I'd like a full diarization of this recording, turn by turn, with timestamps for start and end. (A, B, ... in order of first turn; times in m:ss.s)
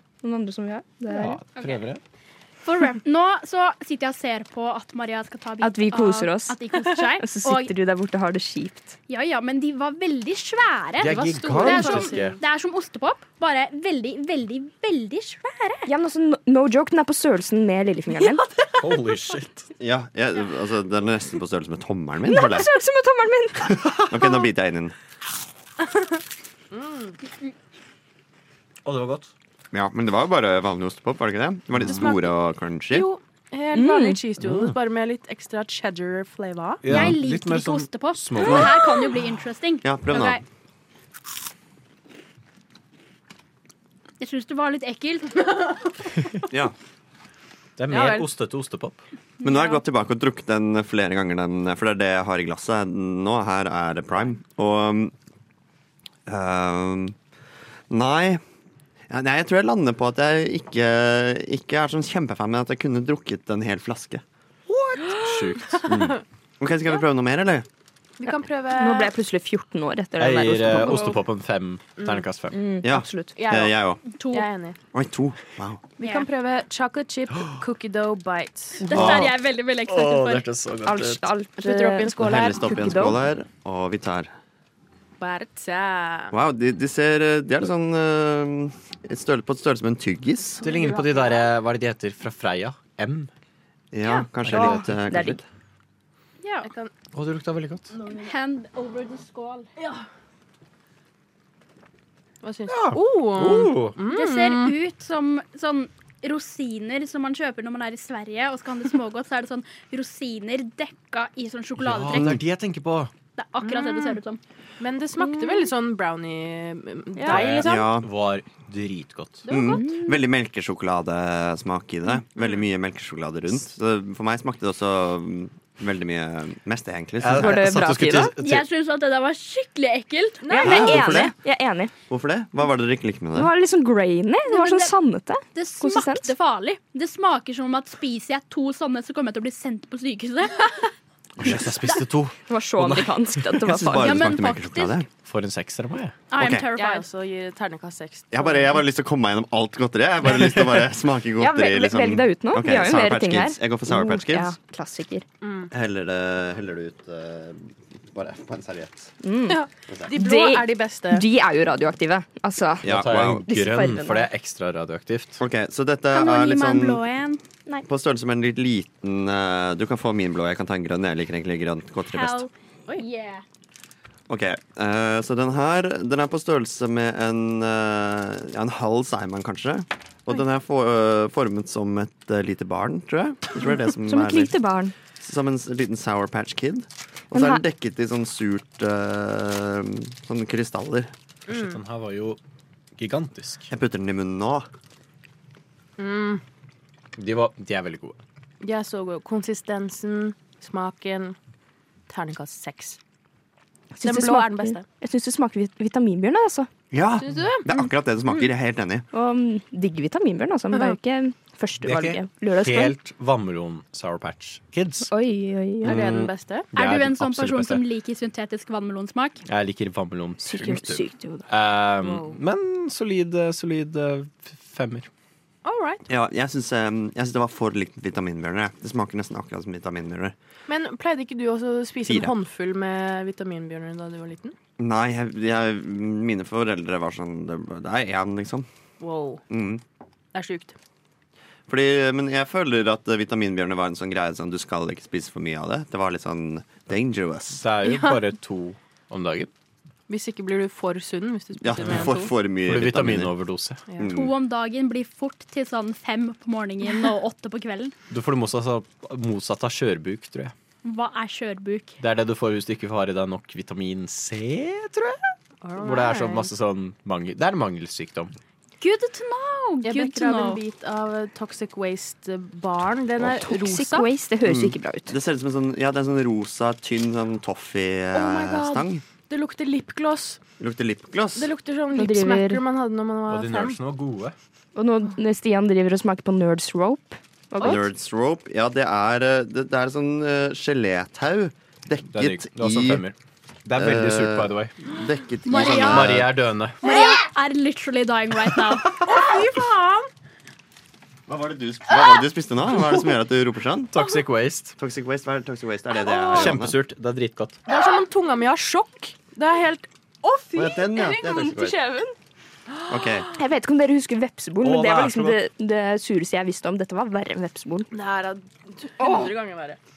0:00.2-0:01.4 A
0:01.1-0:02.0 B
0:02.6-0:07.7 C
0:05.6-0:06.6 A
0:07.2-0:08.9 A
0:09.1-0:15.9 C
0:11.0-0:12.4 B
0:11.0-0:12.4 D
0:15.8-0:18.4 A
0:18.2-0:18.9 D
0:18.8-0:19.7 B
0:19.8-0:22.7 E
0:22.2-0:24.4 A
0:23.7-0:24.9 E
0:26.7-0:27.1 D
0:28.8-0:29.3 B
0:29.7-0:33.1 E
0:31.8-0:32.3 D
0:32.9-0:36.9 D
0:33.7-0:34.2 A
0:34.4-0:34.7 B
0:36.8-0:38.9 B
0:36.9-0:40.4 C
0:39.8-0:40.4 E
0:44.2-0:45.6 C
0:46.5-0:46.7 E
0:47.8-0:49.0 B
0:47.9-0:48.3 D
0:49.4-0:55.1 E
0:56.2-0:57.2 E
0:57.9-0:58.4 E
0:59.1-1:04.2 E
1:04.7-1:05.9 B
1:05.0-1:06.1 D
1:05.8-1:07.7 E
1:08.2-1:09.1 D
1:08.7-1:11.2 A
1:10.2-1:12.6 B
1:12.0-1:12.2 D
1:12.5-1:13.3 A
1:12.8-1:14.0 E
1:13.3-1:14.8 D
1:14.2-1:14.5 C
1:14.9-1:15.8 E
1:16.0-1:18.8 D
1:16.0-1:16.3 C
1:18.8-1:20.5 C
1:18.9-1:19.3 A
1:18.9-1:19.3 E
1:19.9-1:21.3 B
1:20.8-1:23.2 A
1:21.6-1:23.0 D
1:22.2-1:24.3 E
1:25.2-1:26.3 D
1:26.3-1:30.6 E
1:30.6-1:31.5 D
1:30.6-1:33.3 B
1:33.9-1:35.4 E
1:34.4-1:34.8 B
1:34.5-1:35.4 A
1:36.6-1:36.9 D
1:37.1-1:37.9 B
1:37.9-1:38.2 D
1:38.1-1:39.7 C
1:42.4-1:44.7 D
1:42.7-1:44.0 B
1:44.1-1:52.4 C
1:51.8-1:53.1 B
1:53.4-1:54.4 C
1:53.6-1:54.2 D
1:54.8-1:57.9 D
1:55.2-1:55.7 A
1:57.2-1:59.4 B
1:57.4-1:58.1 E
1:59.4-1:59.9 D
1:59.5-2:07.7 E
1:59.7-2:00.0 A
2:07.2-2:08.6 B
2:07.4-2:08.3 A
2:08.4-2:10.4 C
2:10.4-2:11.2 D
2:10.5-2:11.9 A
2:10.6-2:11.4 E
2:12.1-2:13.5 E
2:13.4-2:16.3 A
2:14.5-2:14.9 C
2:15.5-2:20.9 C
2:21.4-2:23.6 B
2:21.7-2:22.0 C
2:22.5-2:24.2 A
2:23.6-2:25.1 E
2:23.9-2:25.0 C
2:25.2-2:26.2 B
2:26.3-2:27.0 C
2:26.4-2:26.6 E
2:26.7-2:28.8 D
2:28.3-2:34.5 E
2:30.3-2:30.8 B
2:31.4-2:35.2 A
2:35.4-2:35.7 D
2:35.7-2:39.1 E
2:39.2-2:39.6 A
2:39.5-2:41.2 D
2:40.1-2:44.3 A
2:42.8-2:43.4 E
2:42.8-2:45.4 B
2:45.4-2:47.0 E
2:46.1-2:47.4 C
2:47.9-2:52.5 E
2:52.1-2:53.4 C
2:54.3-3:04.5 E
3:04.0-3:04.9 A
3:05.2-3:11.1 E
3:07.3-3:07.6 A
3:11.5-3:12.4 B
3:11.5-3:11.8 D
3:13.0-3:13.7 B
3:13.7-3:14.7 E
3:16.0-3:16.4 D
3:17.2-3:18.2 B
3:18.6-3:21.4 D
3:22.1-3:23.0 D
3:23.9-3:26.7 A
3:24.0-3:24.8 D
3:26.9-3:29.1 E
3:27.2-3:27.8 D
3:29.1-3:33.0 A
3:31.8-3:35.1 B
3:35.1-3:36.1 A
3:35.8-3:37.8 B
3:35.8-3:36.7 D
3:36.8-3:39.4 C
3:39.4-3:45.1 B
3:40.4-3:41.4 A
3:42.0-3:42.4 D
3:45.6-3:46.0 D
3:46.1-3:50.3 E
3:50.7-3:54.5 D
3:52.1-3:52.3 E
3:54.8-3:58.7 E
3:59.0-3:59.4 D
3:59.5-3:59.8 E
4:00.3-4:00.7 D
4:01.7-4:07.6 E
4:07.5-4:09.5 B
4:07.8-4:08.2 D
4:10.1-4:12.3 D
4:11.6-4:13.3 E
4:11.8-4:12.1 B
4:12.6-4:13.8 B
4:14.0-4:14.3 E
4:14.1-4:17.9 C
4:18.1-4:20.5 B
4:20.8-4:22.0 C
4:22.0-4:28.3 B
4:25.6-4:26.5 D
4:28.8-4:30.6 C
4:29.8-4:34.1 D
4:33.2-4:35.2 A
4:34.4-4:39.0 E
4:38.1-4:40.4 D
4:40.6-4:41.5 E
4:41.3-4:43.8 D
4:41.9-4:42.6 A
4:43.3-4:44.3 B
4:44.7-4:47.8 A
4:47.6-4:53.0 E
4:52.1-4:54.7 B
4:53.8-4:56.3 E
4:55.4-4:56.1 C
4:55.6-4:56.8 B
4:56.8-4:59.0 C
4:59.0-5:00.1 D
5:01.3-5:04.0 E
5:03.9-5:04.8 B
5:04.8-5:06.7 E
5:06.0-5:06.6 D
5:06.3-5:07.6 B
5:07.7-5:10.4 D
5:10.4-5:12.2 A
5:10.5-5:11.8 E
5:12.9-5:13.3 E
5:13.3-5:17.9 A
5:14.6-5:15.4 B
5:17.9-5:19.8 D
5:19.0-5:19.3 A